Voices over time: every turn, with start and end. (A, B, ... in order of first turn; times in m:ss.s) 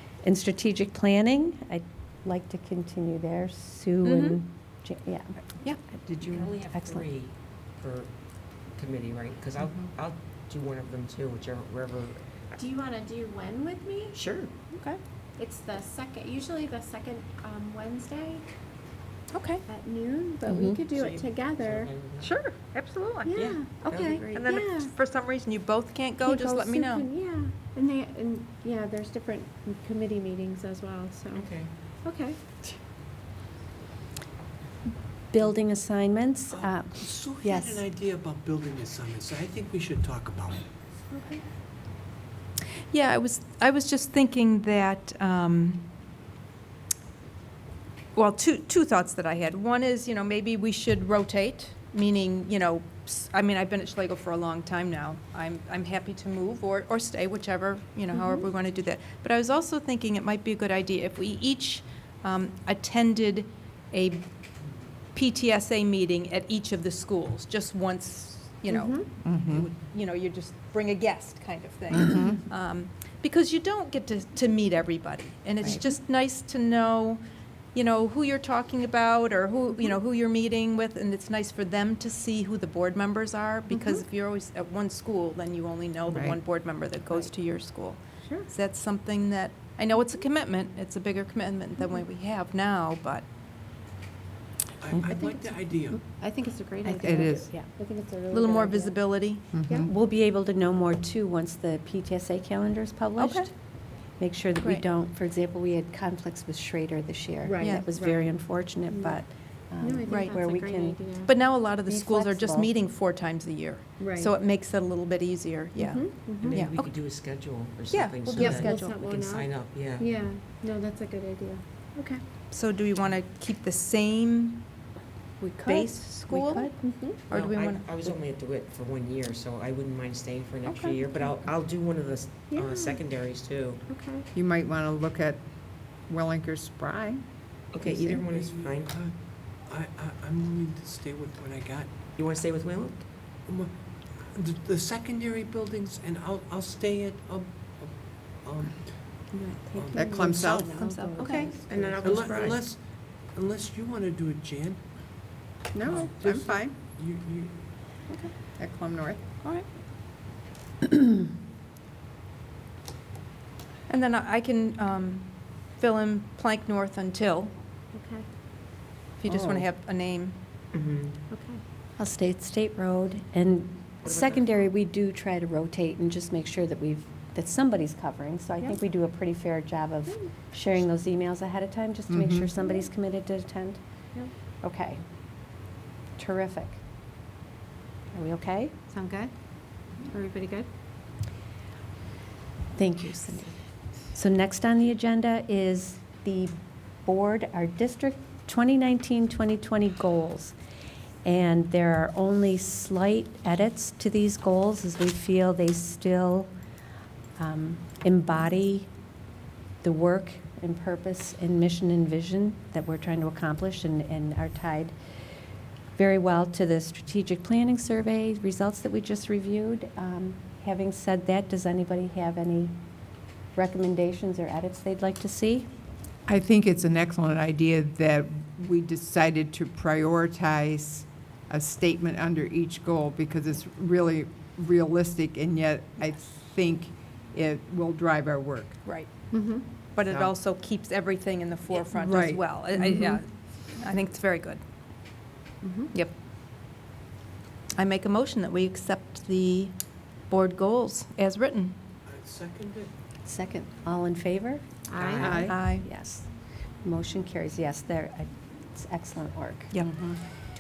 0:00.2-0:05.4 A
0:04.0-0:04.4 B
0:05.9-0:07.1 A
0:06.2-0:12.2 C
0:12.6-0:14.2 D
0:14.1-0:14.5 C
0:14.7-0:15.0 B
0:15.4-0:18.5 D
0:19.3-0:19.6 B
0:19.7-0:21.9 D
0:20.9-0:22.3 C
0:22.2-0:23.3 B
0:23.2-0:24.9 D
0:23.3-0:24.7 C
0:23.9-0:27.1 B
0:26.2-0:31.5 D
0:31.3-0:31.7 C
0:32.0-0:32.4 D
0:35.3-0:37.8 A
0:36.6-0:40.7 E
0:41.1-0:41.4 D
0:42.9-0:45.9 B
0:48.2-1:04.3 B
0:58.1-0:58.4 D
1:05.1-1:17.2 B
1:08.7-1:09.1 D
1:09.2-1:09.7 F
1:11.9-1:12.4 F
1:17.7-1:33.2 B
1:23.7-1:24.0 D
1:26.1-1:26.4 F
1:34.8-1:36.0 E
1:35.1-1:39.9 D
1:36.8-1:37.5 F
1:37.0-1:37.7 A
1:38.3-1:39.5 B
1:39.5-1:39.9 F
1:39.8-1:43.5 A
1:43.2-1:43.5 B
1:44.2-1:51.0 A
1:47.4-1:48.3 D
1:47.6-1:47.9 B
1:48.9-1:49.2 D
1:49.8-1:51.3 D
1:50.1-1:50.4 B
1:51.3-1:57.0 B
1:51.8-1:52.7 A
1:54.0-1:54.3 D
1:55.8-1:56.6 D
1:56.4-2:00.1 C
1:57.9-1:59.0 B
1:58.4-2:02.2 D
2:02.5-2:04.7 B
2:05.4-2:06.8 A
2:05.6-2:06.7 B
2:06.8-2:07.2 D
2:07.3-2:08.2 B
2:07.3-2:13.8 C
2:12.5-2:13.0 D
2:13.9-2:14.3 D
2:14.3-2:17.2 F
2:17.7-2:19.0 C
2:17.8-2:21.9 E
2:22.2-2:23.1 C
2:23.4-2:30.2 E
2:29.3-2:32.5 D
2:29.9-2:31.2 F
2:31.2-2:32.6 C
2:32.0-2:34.8 E
2:35.8-2:36.8 F
2:35.9-2:37.6 E
2:38.6-2:39.2 F
2:39.4-2:39.7 B
2:43.9-2:47.5 B
2:47.9-2:48.3 D
2:49.2-2:50.4 B
2:50.7-2:51.2 C
2:51.3-2:51.6 D
2:52.0-3:03.8 A
2:54.0-2:54.6 C
3:00.1-3:00.3 D
3:02.1-3:02.6 F
3:04.6-3:05.0 A
3:06.2-3:06.8 A
3:08.1-3:08.8 A
3:08.9-3:09.3 D
3:10.0-3:10.7 D
3:12.8-3:13.5 A
3:14.1-3:20.5 A
3:21.2-3:26.5 A
3:27.4-3:28.9 A
3:29.8-3:34.9 A
3:36.0-3:42.8 A
3:43.5-3:45.7 A
3:46.3-3:58.8 F
3:58.8-3:59.3 B
3:59.3-3:59.7 D
3:59.8-4:04.6 B
4:00.1-4:00.3 F
4:01.8-4:03.1 F
4:05.6-4:05.9 D
4:07.8-4:11.8 B
4:12.1-4:12.9 E
4:13.2-4:14.7 A
4:14.9-4:15.4 D
4:15.0-4:15.5 E
4:15.2-4:15.6 F
4:15.4-4:15.9 B
4:15.5-4:16.3 A
4:16.8-4:19.8 A
4:19.7-4:20.1 B